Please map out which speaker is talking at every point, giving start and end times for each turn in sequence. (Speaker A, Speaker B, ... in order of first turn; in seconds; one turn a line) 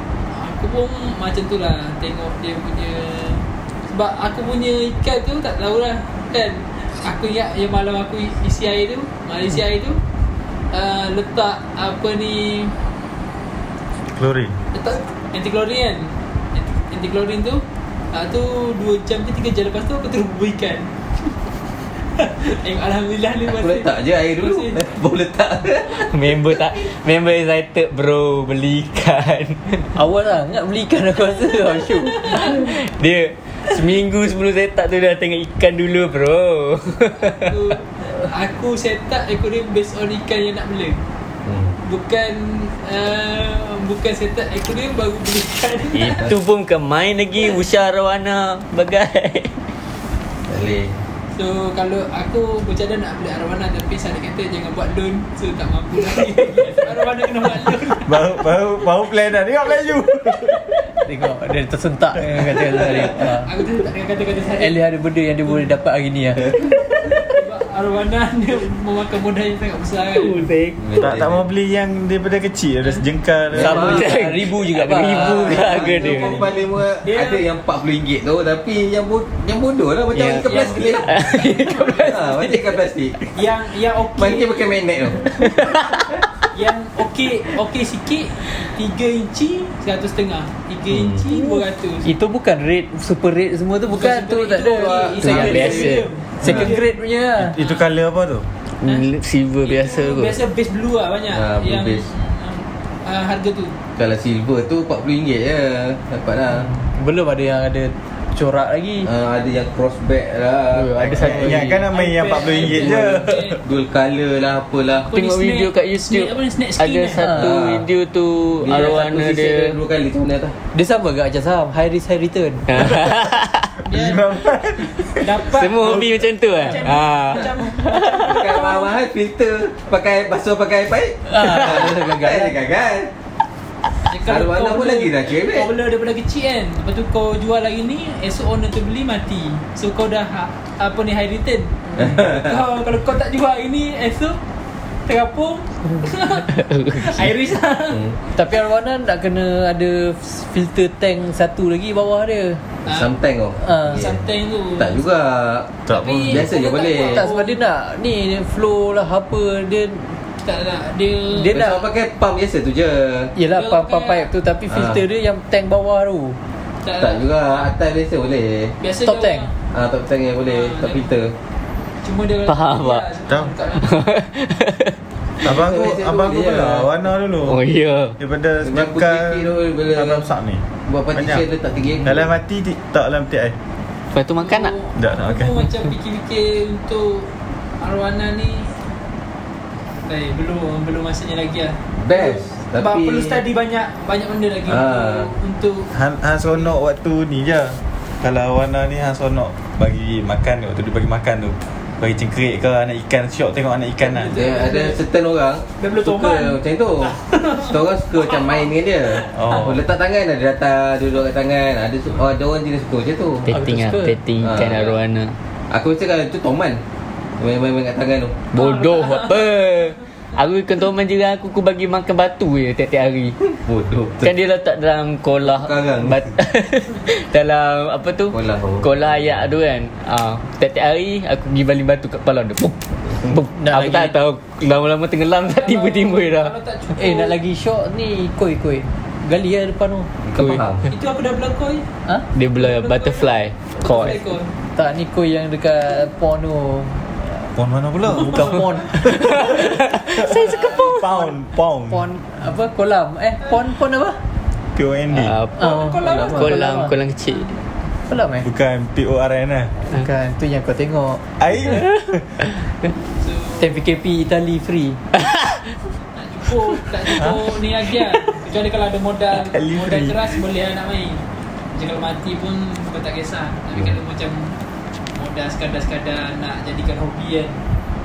Speaker A: 0.3-10.0
Speaker A: 10.7-12.7
Speaker B: 14.1-14.5
Speaker A: 14.7-20.9
Speaker A: 22.1-24.8
Speaker C: 23.4-26.1
Speaker D: 26.1-29.9
Speaker E: 29.9-32.5
Speaker D: 32.3-37.5
Speaker A: 37.2-41.0
Speaker C: 41.4-41.8
Speaker A: 41.8-46.3
Speaker D: 45.9-49.7
Speaker C: 50.5-51.0
Speaker A: 51.3-58.3
Speaker B: 57.9-60.7
Speaker E: 61.0-63.5
Speaker A: 63.3-64.8
Speaker E: 64.5-66.6
Speaker A: 67.2-70.5
Speaker D: 70.1-71.0
Speaker C: 70.8-71.4
Speaker B: 71.0-74.0
Speaker C: 73.5-74.1
Speaker D: 73.6-76.4
Speaker E: 73.6-75.8
Speaker C: 75.0-81.2
Speaker A: 75.8-77.4
Speaker D: 80.1-82.5
Speaker A: 80.3-82.5
Speaker C: 82.0-83.3
Speaker A: 83.3-84.8
Speaker C: 84.2-86.0
Speaker D: 85.4-86.1
Speaker A: 86.5-92.1
Speaker C: 90.9-91.2
Speaker E: 91.3-95.8
Speaker A: 93.9-96.9
Speaker C: 94.7-96.6
Speaker D: 95.2-96.1
Speaker E: 96.4-97.6
Speaker B: 97.4-98.5
Speaker A: 97.6-97.8
Speaker D: 98.8-100.4
Speaker A: 99.6-103.7
Speaker C: 101.3-102.1
Speaker C: 104.0-106.7
Speaker E: 106.5-109.1
Speaker C: 109.0-111.7
Speaker D: 110.7-111.8
Speaker B: 111.1-113.6
Speaker A: 111.9-113.6
Speaker C: 112.6-115.1
Speaker A: 115.1-117.2
Speaker D: 115.1-119.8
Speaker E: 117.2-117.5
Speaker C: 117.2-117.8
Speaker C: 118.6-120.5
Speaker E: 120.7-123.0
Speaker D: 122.7-123.7
Speaker A: 123.9-124.2
Speaker B: 123.9-126.0
Speaker A: 125.2-126.1
Speaker D: 125.5-128.2
Speaker A: 126.6-129.0
Speaker C: 128.2-133.1
Speaker E: 131.3-132.5
Speaker A: 134.1-144.4
Speaker C: 134.2-135.7
Speaker C: 142.0-142.6
Speaker A: 145.1-148.0
Speaker D: 146.5-147.2
Speaker E: 148.3-152.6
Speaker A: 152.8-153.1
Speaker C: 152.9-154.2
Speaker E: 153.6-154.1
Speaker A: 153.9-154.9
Speaker C: 154.7-157.2
Speaker B: 155.8-156.5
Speaker A: 155.9-157.6
Speaker E: 157.1-160.2
Speaker A: 160.4-161.6
Speaker E: 161.3-161.8
Speaker C: 161.5-163.3
Speaker E: 163.3-166.4
Speaker A: 163.5-164.3
Speaker C: 164.7-165.0
Speaker A: 166.8-167.2
Speaker C: 167.0-168.8
Speaker A: 168.8-169.5
Speaker E: 169.0-169.5
Speaker C: 169.7-171.3
Speaker A: 170.4-171.1
Speaker A: 172.0-173.9
Speaker D: 172.4-173.1
Speaker D: 173.8-174.9
Speaker C: 175.4-176.9
Speaker B: 175.4-177.6
Speaker D: 177.4-178.2
Speaker B: 178.2-181.5
Speaker C: 178.6-180.3
Speaker C: 180.9-182.3
Speaker B: 182.0-183.5
Speaker D: 184.1-184.7
Speaker A: 184.4-188.7
Speaker B: 185.0-185.7
Speaker A: 190.1-195.9
Speaker C: 192.0-193.4
Speaker C: 194.7-195.3
Speaker B: 195.9-204.4
Speaker A: 204.0-205.0
Speaker C: 204.3-213.5
Speaker A: 205.8-209.4
Speaker B: 209.3-209.8
Speaker E: 213.5-214.2
Speaker D: 213.5-215.3
Speaker C: 214.4-214.8
Speaker A: 214.6-215.0
Speaker C: 215.7-216.8
Speaker C: 217.4-218.4
Speaker D: 218.5-223.4
Speaker A: 218.6-219.4
Speaker C: 223.5-224.3
Speaker D: 224.2-236.5
Speaker C: 225.4-226.2
Speaker C: 228.3-228.9
Speaker E: 233.5-234.1
Speaker A: 235.5-237.4
Speaker E: 236.9-240.1
Speaker C: 240.2-240.9
Speaker D: 240.4-240.6
Speaker A: 240.9-241.8
Speaker D: 242.3-244.2
Speaker A: 242.6-244.5
Speaker E: 244.8-247.5
Speaker B: 247.6-252.0
Speaker E: 248.0-251.3
Speaker D: 249.1-251.0
Speaker E: 251.9-254.2
Speaker B: 254.7-255.4
Speaker D: 255.1-257.5
Speaker E: 255.6-256.9
Speaker A: 255.6-256.6
Speaker E: 258.1-258.5
Speaker B: 258.4-259.7
Speaker E: 259.8-261.2
Speaker B: 261.4-262.4
Speaker A: 263.2-263.7
Speaker E: 263.6-265.0
Speaker D: 265.2-265.6
Speaker A: 266.1-271.2
Speaker B: 269.3-270.4
Speaker A: 271.7-274.5
Speaker A: 275.1-277.6